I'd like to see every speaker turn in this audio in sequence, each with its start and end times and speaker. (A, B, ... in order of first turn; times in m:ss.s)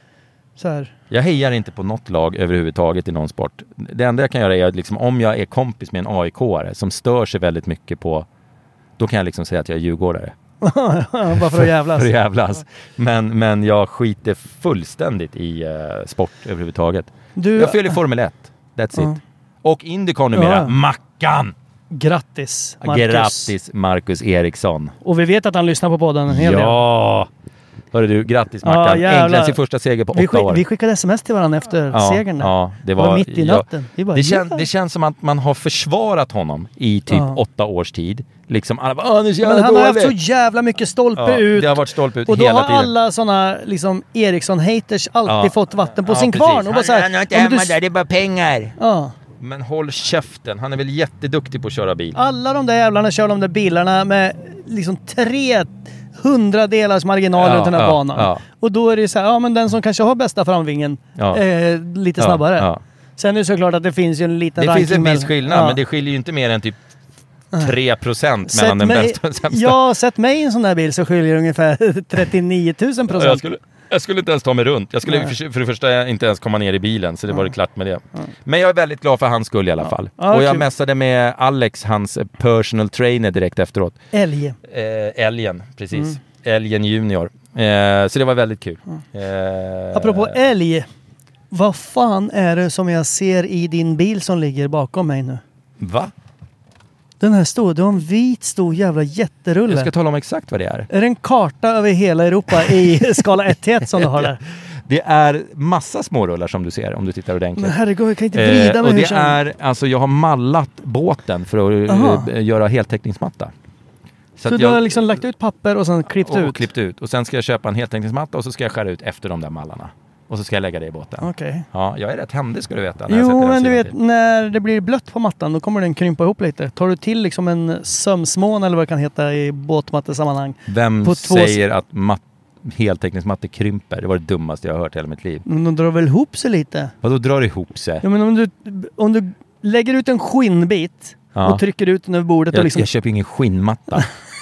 0:00.6-0:00.9 A
0:01.1-0:08.3 B
0:09.0-0:10.4 B
0:10.6-0:12.1 A
0:11.3-0:21.6 B
0:17.4-0:18.0 A
0:20.3-0:20.8 A
0:21.9-0:23.5 A
0:22.8-0:24.9 B
0:25.0-0:26.8 A
0:26.3-0:27.3 B
0:27.9-0:30.6 B
0:28.6-0:29.6 A
0:30.1-0:34.6 A
0:31.9-0:40.2 B
0:37.1-0:37.4 A
0:39.4-0:47.8 A
0:41.2-0:42.9 B
0:45.3-0:48.8 B
0:48.8-0:49.1 A
0:49.4-0:52.2 B
0:52.2-1:05.8 A
0:57.4-0:58.4 B
1:01.2-1:01.4 B
1:02.2-1:02.8 B
1:04.6-1:06.8 B
1:07.6-1:09.8 B
1:08.5-1:13.4 A
1:13.1-1:24.0 B
1:15.1-1:15.3 A
1:19.8-1:20.7 A
1:24.1-1:24.6 A
1:24.6-1:30.4 B
1:29.9-1:30.9 A
1:31.5-1:35.4 A
1:35.8-1:36.1 B
1:37.2-1:39.9 A
1:39.7-1:40.9 B
1:40.9-1:44.4 A
1:42.7-1:43.1 B
1:43.9-1:47.8 B
1:47.6-1:49.4 A
1:48.3-1:53.5 B
1:51.9-1:52.3 A
1:54.4-1:54.9 B
1:54.5-1:56.7 A
1:56.2-2:03.9 B
2:01.2-2:01.7 A
2:03.1-2:11.6 A
2:10.7-2:15.4 B
2:15.4-2:16.9 A
2:17.0-2:18.0 B
2:18.0-2:22.9 A
2:21.4-2:21.6 B
2:22.5-2:24.1 B